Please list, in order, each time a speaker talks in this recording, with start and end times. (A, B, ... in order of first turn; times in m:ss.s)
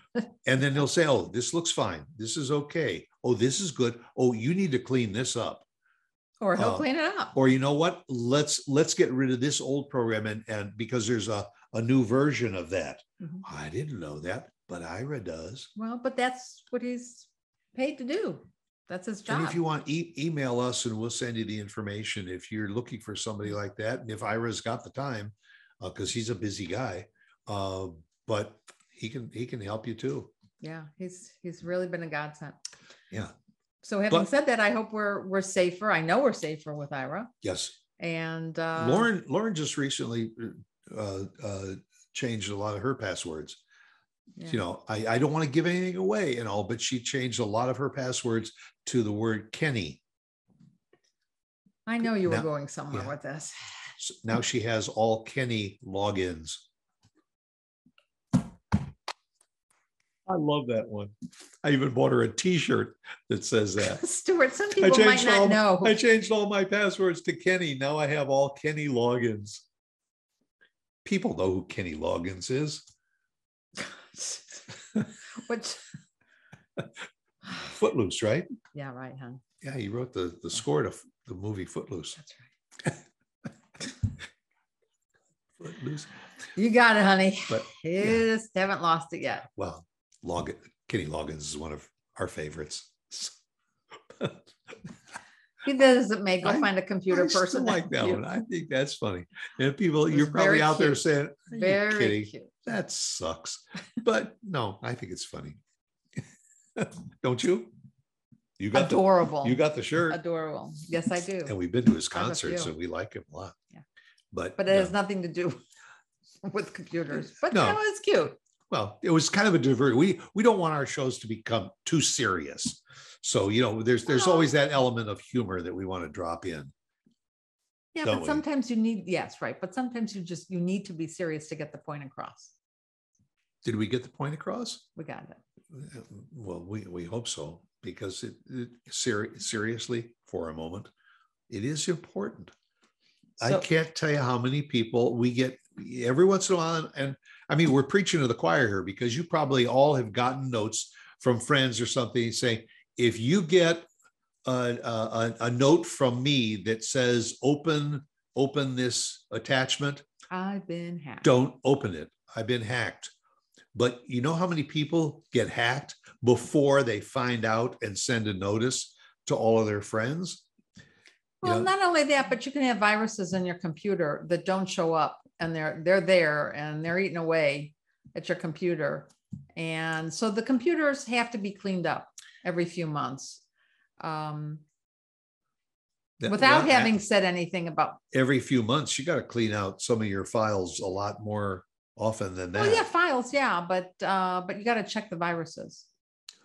0:00.4-0:05.6 A
0:06.4-0:07.3 B
0:06.6-0:15.7 A
0:15.8-0:19.6 B
0:19.3-0:30.3 A
0:30.6-0:32.6 B
0:33.8-0:37.3 B
0:37.4-0:37.8 A
0:38.0-0:39.1 B
0:38.8-0:43.6 A
0:44.5-0:50.0 A
0:51.9-0:53.6 B
0:52.2-0:53.2 A
0:54.0-0:56.6 A
1:00.3-1:04.0 A
1:03.8-1:06.0 B
1:04.8-1:09.6 A
1:11.0-1:12.8 A
1:13.8-1:15.8 B
1:17.5-1:18.5 A
1:18.7-1:19.4 B
1:19.6-1:22.2 A
1:22.2-1:22.5 B
1:25.6-1:26.1 A
1:26.6-1:29.5 B
1:27.5-1:28.2 A
1:29.6-1:33.4 A
1:34.2-1:34.5 A
1:35.6-1:38.2 B
1:36.4-1:45.6 A
1:40.1-1:42.6 B
1:46.8-1:47.7 A
1:48.6-1:50.2 A
1:48.7-1:51.5 B
1:51.5-1:53.6 A
1:52.1-1:52.7 B
1:54.3-1:54.9 A
1:54.6-1:55.6 B
1:56.4-1:58.4 B
1:57.5-1:57.8 A
1:58.7-2:06.7 A
2:04.1-2:04.5 B
2:08.0-2:12.5 B
2:08.0-2:08.4 A
2:13.6-2:14.8 A
2:15.0-2:15.4 B
2:15.7-2:20.9 A
2:21.5-2:22.5 A
2:23.4-2:33.9 A
2:34.4-2:40.0 A
2:40.3-2:41.3 B
2:41.2-2:43.1 A
2:43.7-2:50.4 A
2:51.4-3:03.4 B
2:51.4-2:51.7 A
3:04.0-3:04.6 B
3:06.2-3:07.0 A
3:06.2-3:08.0 B
3:08.1-3:12.8 A
3:12.6-3:15.9 B